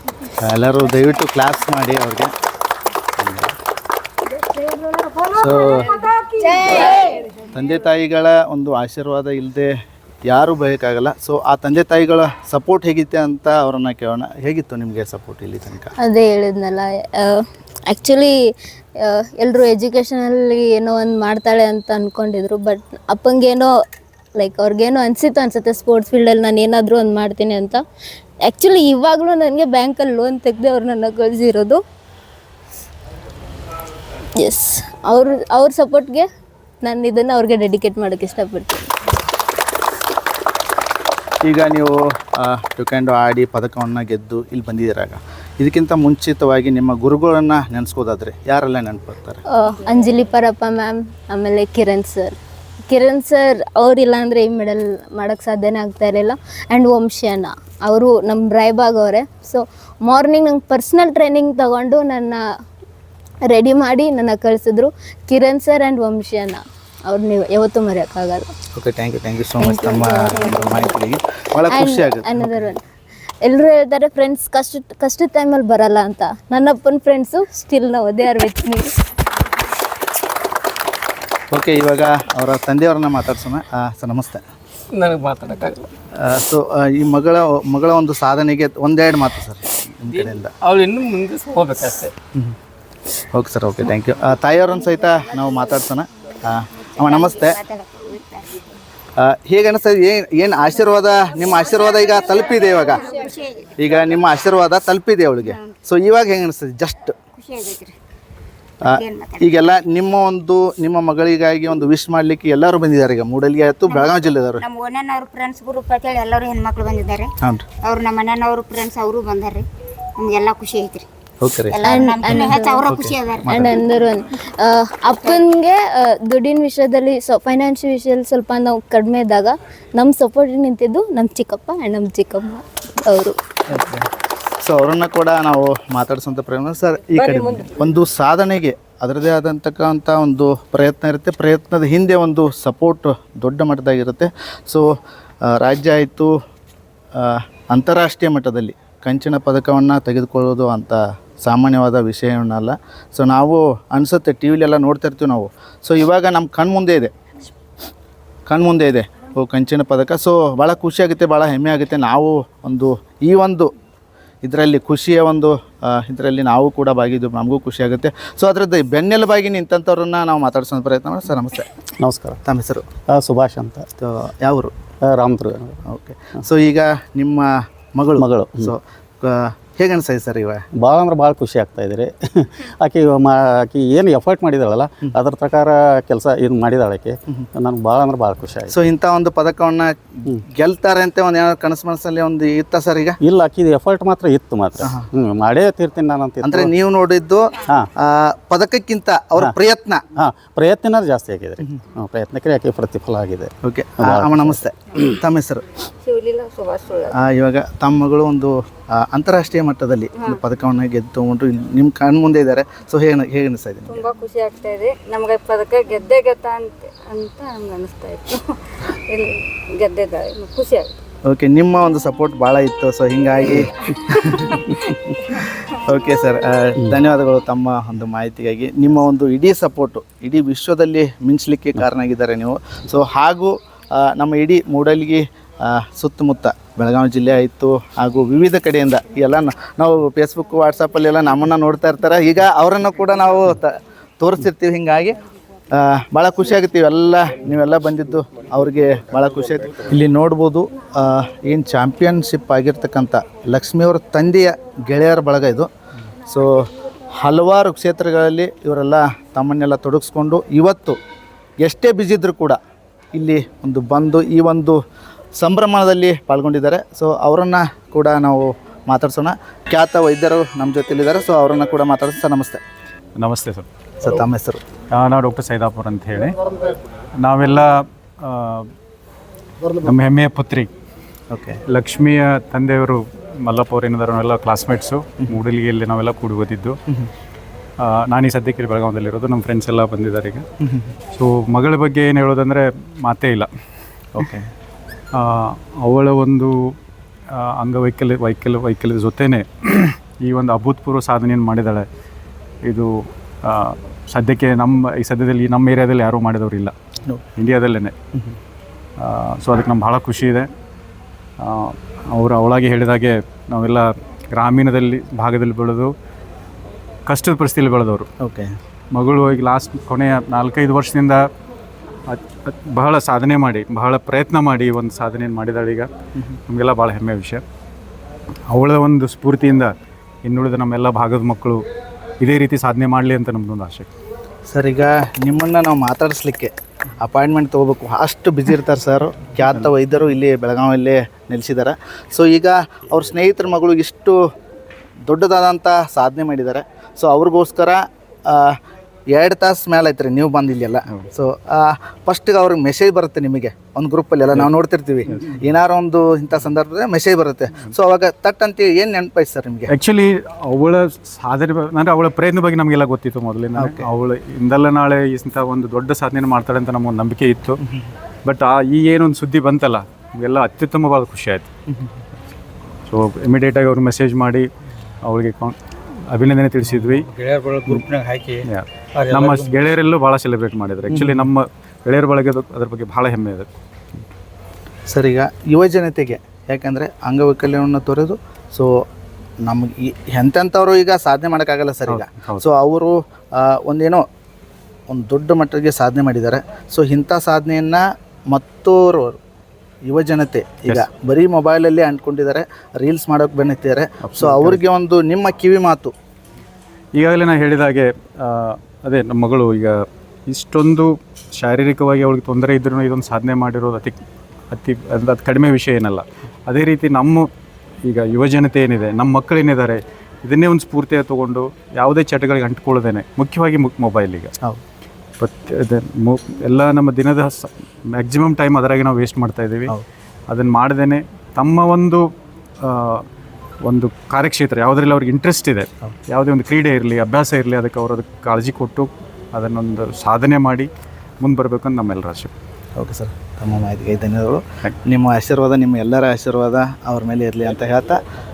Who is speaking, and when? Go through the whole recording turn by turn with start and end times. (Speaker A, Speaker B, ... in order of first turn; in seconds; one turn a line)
Speaker A: 0.4-2.3
Speaker A: 5.3-6.0
Speaker B: 6.7-7.1
Speaker A: 7.5-9.7
Speaker A: 10.3-15.9
Speaker B: 16.0-18.3
Speaker B: 19.0-23.7
Speaker B: 24.4-27.8
Speaker B: 28.4-31.8
Speaker B: 34.4-36.3
Speaker B: 36.8-38.9
Speaker A: 41.4-49.4
Speaker B: 49.5-52.3
Speaker B: 52.9-62.4
Speaker B: 63.5-68.5
Speaker A: 68.8-72.7
Speaker B: 69.6-70.9
Speaker B: 71.7-72.8
Speaker B: 73.5-78.9
Speaker A: 81.5-84.4
Speaker C: 84.9-85.9
Speaker A: 86.2-90.5
Speaker C: 90.1-92.1
Speaker A: 93.3-97.6
Speaker D: 96.9-98.6
Speaker A: 99.2-103.1
Speaker D: 102.0-103.8
Speaker A: 103.8-107.2
Speaker D: 107.4-108.0
Speaker D: 108.8-109.5
Speaker A: 108.8-114.7
Speaker D: 113.9-121.1
Speaker A: 121.4-123.7
Speaker D: 121.7-123.7
Speaker B: 121.8-122.9
Speaker B: 123.5-133.4
Speaker D: 125.2-125.4
Speaker A: 133.7-134.1
Speaker A: 134.6-144.9
Speaker E: 137.3-137.7
Speaker A: 145.4-146.3
Speaker A: 147.2-157.1
Speaker A: 158.5-163.7
Speaker A: 164.4-171.7
Speaker F: 172.0-172.4
Speaker A: 172.4-172.9
Speaker F: 173.1-173.9
Speaker A: 174.0-174.7
Speaker F: 175.0-175.8
Speaker A: 175.9-180.7
Speaker F: 178.2-178.7
Speaker F: 180.7-188.8
Speaker A: 188.7-193.2
Speaker F: 193.2-196.7
Speaker A: 194.8-195.1
Speaker A: 196.4-200.0
Speaker F: 200.2-204.6
Speaker A: 203.7-205.7
Speaker E: 206.0-207.2
Speaker A: 207.1-214.0
Speaker E: 213.9-220.9
Speaker A: 221.2-224.7
Speaker A: 225.7-245.2
Speaker A: 245.7-255.7
Speaker A: 256.2-256.7
Speaker A: 257.2-261.0
Speaker A: 261.6-262.6
Speaker A: 263.1-264.8
Speaker A: 265.4-272.6
Speaker G: 273.2-273.7
Speaker A: 274.0-274.6
Speaker G: 274.9-276.4
Speaker G: 277.2-278.7
Speaker G: 279.8-280.7
Speaker A: 281.3-281.6
Speaker G: 281.7-286.8
Speaker G: 287.8-290.4
Speaker A: 290.6-290.9
Speaker G: 291.1-293.5
Speaker A: 294.1-294.5
Speaker G: 295.1-296.6
Speaker G: 297.3-301.9
Speaker G: 302.7-302.9
Speaker G: 303.4-306.7
Speaker G: 307.4-307.9
Speaker G: 309.0-310.5
Speaker G: 311.4-315.9
Speaker G: 317.1-318.1
Speaker A: 318.2-318.6
Speaker G: 318.9-321.3
Speaker G: 322.1-325.9
Speaker G: 326.5-327.4
Speaker G: 328.5-329.7
Speaker G: 330.2-331.6
Speaker G: 332.2-333.9
Speaker A: 334.5-344.2
Speaker A: 345.1-348.6
Speaker A: 349.1-359.7
Speaker G: 359.7-367.6
Speaker A: 363.6-363.9
Speaker G: 368.2-371.5
Speaker G: 372.9-374.5
Speaker G: 375.0-375.6
Speaker G: 376.1-377.1
Speaker C: 377.2-377.7
Speaker G: 378.5-383.5
Speaker C: 379.1-379.7
Speaker A: 384.9-388.7
Speaker A: 389.4-394.1
Speaker G: 391.9-392.4
Speaker A: 394.9-399.2
Speaker A: 399.8-405.9
Speaker G: 404.0-404.6
Speaker G: 406.9-417.3
Speaker G: 417.8-424.3
Speaker G: 425.2-429.7
Speaker G: 430.3-432.1
Speaker G: 432.6-433.1
Speaker G: 433.7-440.7
Speaker G: 441.2-442.3
Speaker A: 442.8-448.0